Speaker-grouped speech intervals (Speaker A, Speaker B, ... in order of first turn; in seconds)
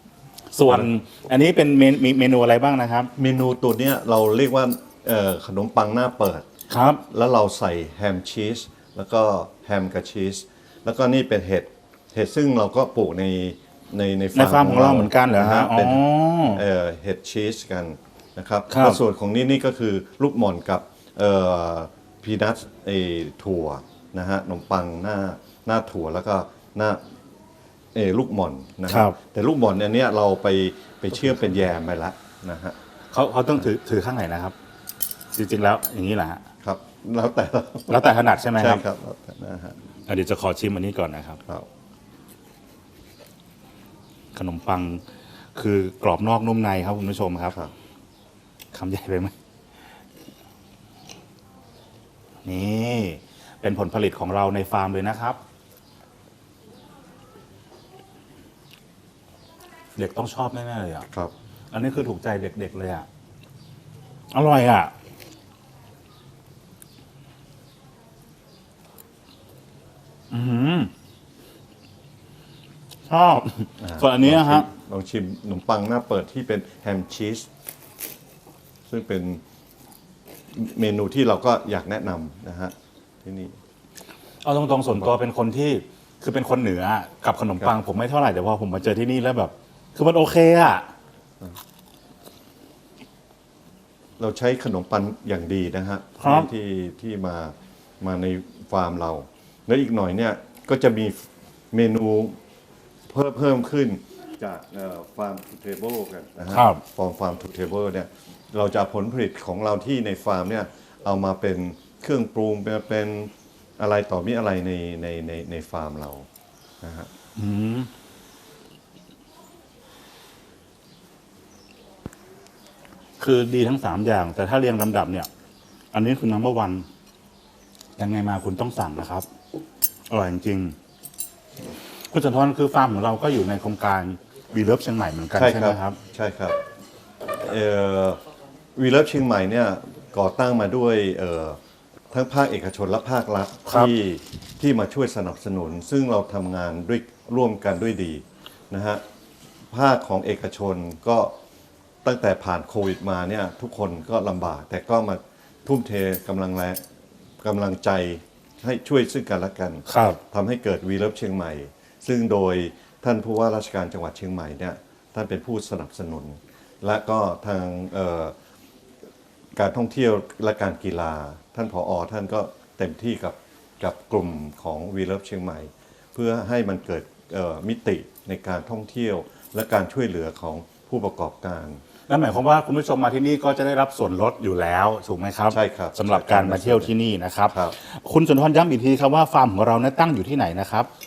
Speaker A: 0.5-3.1, 6.7-7.0, 14.3-16.6, 18.7-19.0, 28.9-29.2, 33.1-34.5, 35.3-36.4, 37.9-38.8, 40.1-41.4, 44.3-45.0, 45.5-47.5, 48.7-49.3, 52.4-55.4, 60.0-61.1, 61.7-63.1, 64.3-64.9, 70.3-70.9, 73.1-74.7, 84.4-90.9, 96.2-96.5, 106.5-106.8, 117.3-117.9, 123.2-125.3, 125.9-126.9, 128.0-129.3, 130.1-130.8, 132.1-136.0, 143.7-143.9, 159.9-160.2, 182.1-190.9
Speaker B: 3.1-6.5, 7.1-27.0, 27.9-32.8, 36.6-38.0, 38.6-39.8, 73.8-77.5, 78.9-79.4, 80.5-83.6, 94.2-102.4, 103.1-116.3, 116.8-117.1, 135.3-136.6, 137.4-138.2, 138.8-141.6, 142.1-149.0, 149.7-151.3, 152.0-156.8, 157.4-168.3, 169.5-181.8, 185.5-186.9, 187.5-187.7